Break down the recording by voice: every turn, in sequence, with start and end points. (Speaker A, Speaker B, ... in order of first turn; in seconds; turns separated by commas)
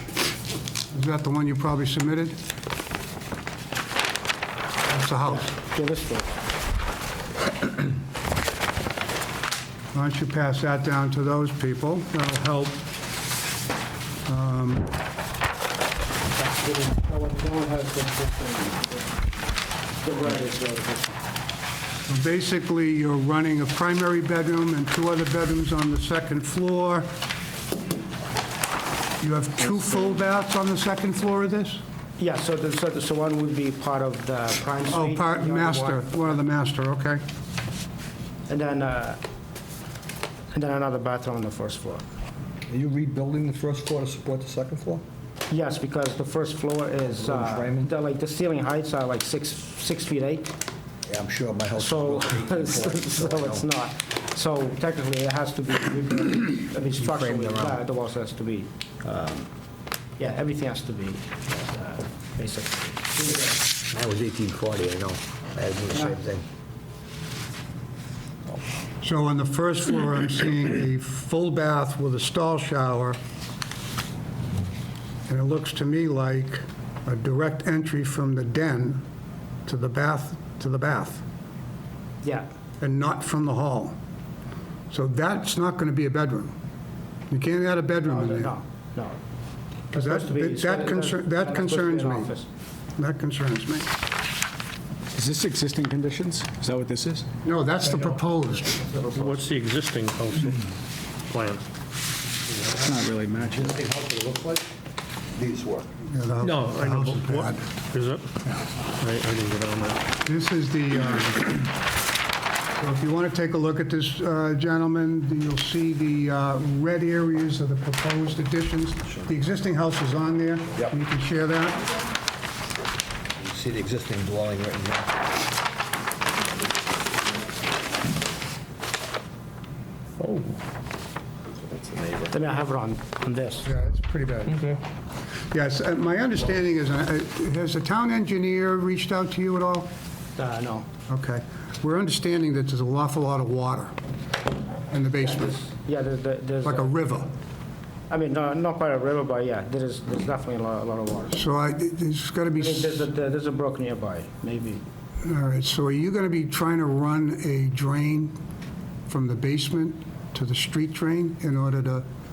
Speaker A: 0.9-2.4, Speaker A: 4.9-5.5, Speaker B: 5.2-6.4, Speaker A: 9.9-12.8, Speaker A: 14.3-14.9, Speaker B: 16.3-19.4, Speaker B: 20.0-21.2, Speaker A: 22.1-27.1, Speaker A: 29.2-31.8, Speaker B: 32.2-36.3, Speaker A: 34.9-37.2, Speaker B: 38.5-39.2, Speaker B: 40.5-42.0, Speaker C: 42.7-45.0, Speaker B: 45.5-50.5, Speaker C: 47.0-47.9, Speaker C: 51.1-53.6, Speaker B: 51.8-59.5, Speaker C: 57.0-57.7, Speaker B: 60.2-63.6, Speaker C: 63.9-66.4, Speaker A: 69.0-73.2, Speaker A: 75.3-79.0, Speaker A: 79.7-81.2, Speaker B: 82.2-82.5, Speaker A: 82.8-84.0, Speaker A: 84.9-86.5, Speaker A: 87.3-88.5, Speaker B: 88.1-89.2, Speaker B: 89.9-92.5, Speaker A: 89.9-92.3, Speaker A: 93.0-93.9, Speaker D: 95.1-97.3, Speaker A: 97.4-98.8, Speaker E: 99.1-100.7, Speaker E: 101.3-101.6, Speaker D: 102.8-103.7, Speaker C: 103.4-104.7, Speaker C: 105.4-105.9, Speaker A: 106.1-107.7, Speaker E: 106.4-108.4, Speaker E: 109.0-110.0, Speaker A: 110.2-111.7, Speaker A: 112.8-121.9, Speaker C: 123.4-125.2, Speaker E: 130.2-130.6, Speaker E: 131.7-132.3, Speaker B: 132.3-133.7, Speaker A: 133.7-134.7, Speaker A: 135.5-139.9, Speaker B: 140.4-140.9, Speaker A: 141.1-143.9, Speaker A: 144.9-145.6, Speaker B: 145.2-146.9, Speaker A: 146.6-147.3, Speaker B: 148.1-151.4, Speaker A: 151.3-153.1, Speaker B: 152.6-154.8, Speaker A: 155.2-158.4, Speaker A: 159.1-162.1